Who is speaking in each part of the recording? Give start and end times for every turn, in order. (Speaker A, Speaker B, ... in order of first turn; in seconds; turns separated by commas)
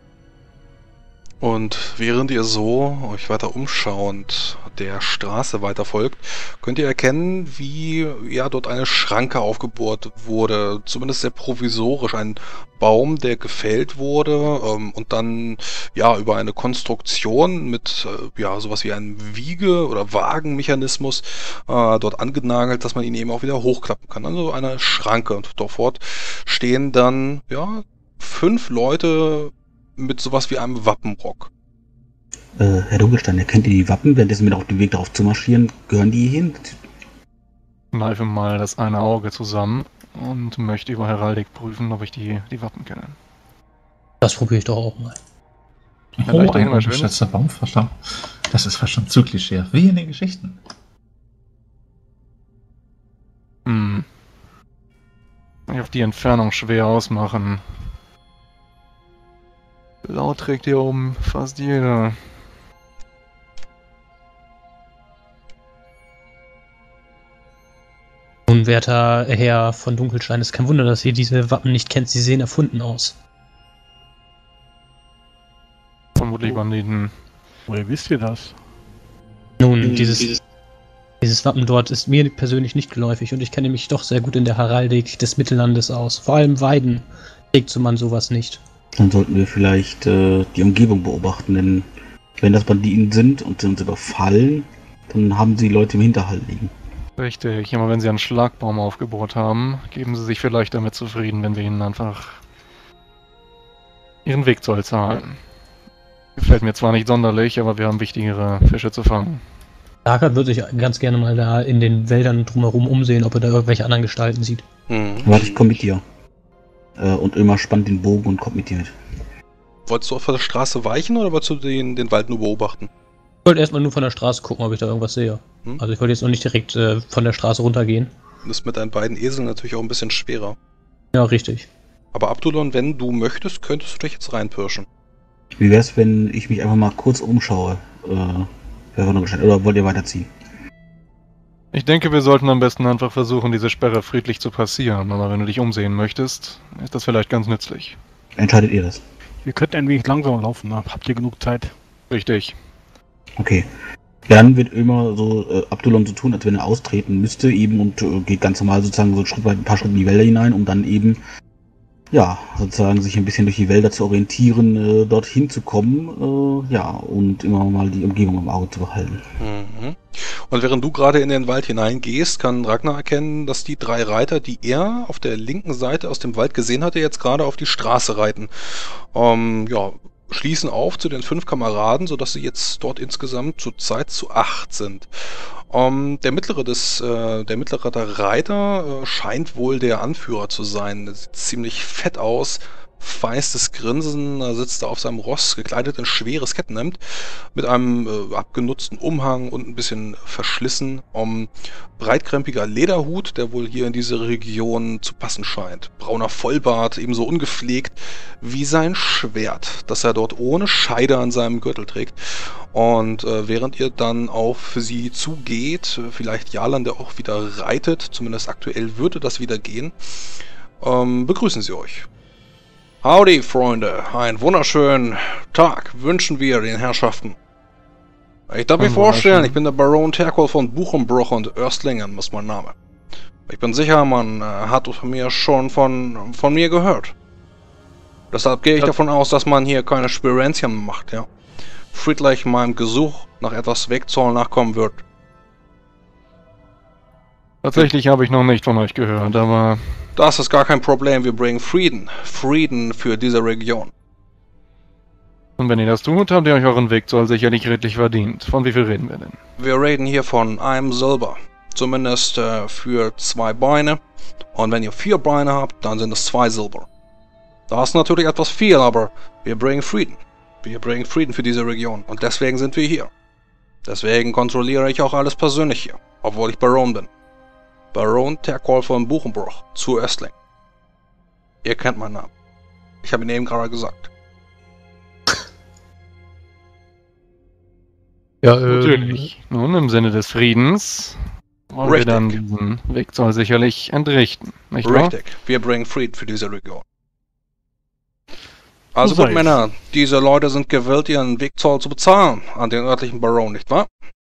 Speaker A: 1.4-31.5, Speaker B: 32.6-36.8, Speaker C: 37.9-43.1, Speaker D: 44.2-45.2, Speaker E: 46.2-50.6, Speaker C: 46.2-47.1, Speaker C: 53.6-54.0, Speaker C: 55.7-57.6, Speaker C: 60.0-62.3, Speaker D: 68.5-73.2, Speaker C: 76.2-77.1, Speaker F: 77.7-78.5, Speaker D: 79.6-80.4, Speaker D: 81.2-88.6, Speaker B: 89.0-91.8, Speaker B: 92.4-96.7, Speaker C: 97.2-102.4, Speaker C: 104.2-105.4, Speaker C: 106.4-109.4, Speaker D: 110.0-114.6, Speaker A: 114.9-115.5, Speaker B: 115.2-116.0, Speaker B: 117.0-118.9, Speaker A: 119.9-122.9, Speaker D: 123.4-128.1, Speaker A: 128.4-130.6, Speaker D: 131.1-131.7, Speaker A: 132.1-134.8, Speaker B: 135.5-140.3, Speaker C: 141.7-148.0, Speaker B: 148.3-149.0, Speaker F: 149.4-151.7, Speaker C: 152.1-152.5, Speaker B: 153.4-153.7, Speaker B: 154.3-161.2, Speaker B: 162.1-169.2, Speaker A: 169.4-185.1, Speaker A: 185.7-197.0, Speaker A: 197.5-222.1, Speaker A: 223.0-227.3, Speaker A: 228.5-232.7, Speaker C: 228.8-229.6, Speaker A: 233.5-237.1, Speaker A: 238.3-241.3, Speaker A: 241.9-245.0, Speaker C: 247.6-250.1, Speaker A: 250.2-253.9, Speaker C: 255.6-259.4, Speaker A: 259.6-264.0, Speaker A: 264.5-266.9, Speaker A: 267.7-273.1, Speaker A: 273.8-277.1, Speaker A: 277.9-280.3, Speaker A: 281.6-282.3, Speaker A: 283.0-284.1, Speaker D: 288.4-289.3, Speaker C: 288.7-295.1, Speaker A: 291.8-292.4, Speaker A: 294.8-296.8, Speaker A: 298.9-303.9, Speaker F: 299.0-299.6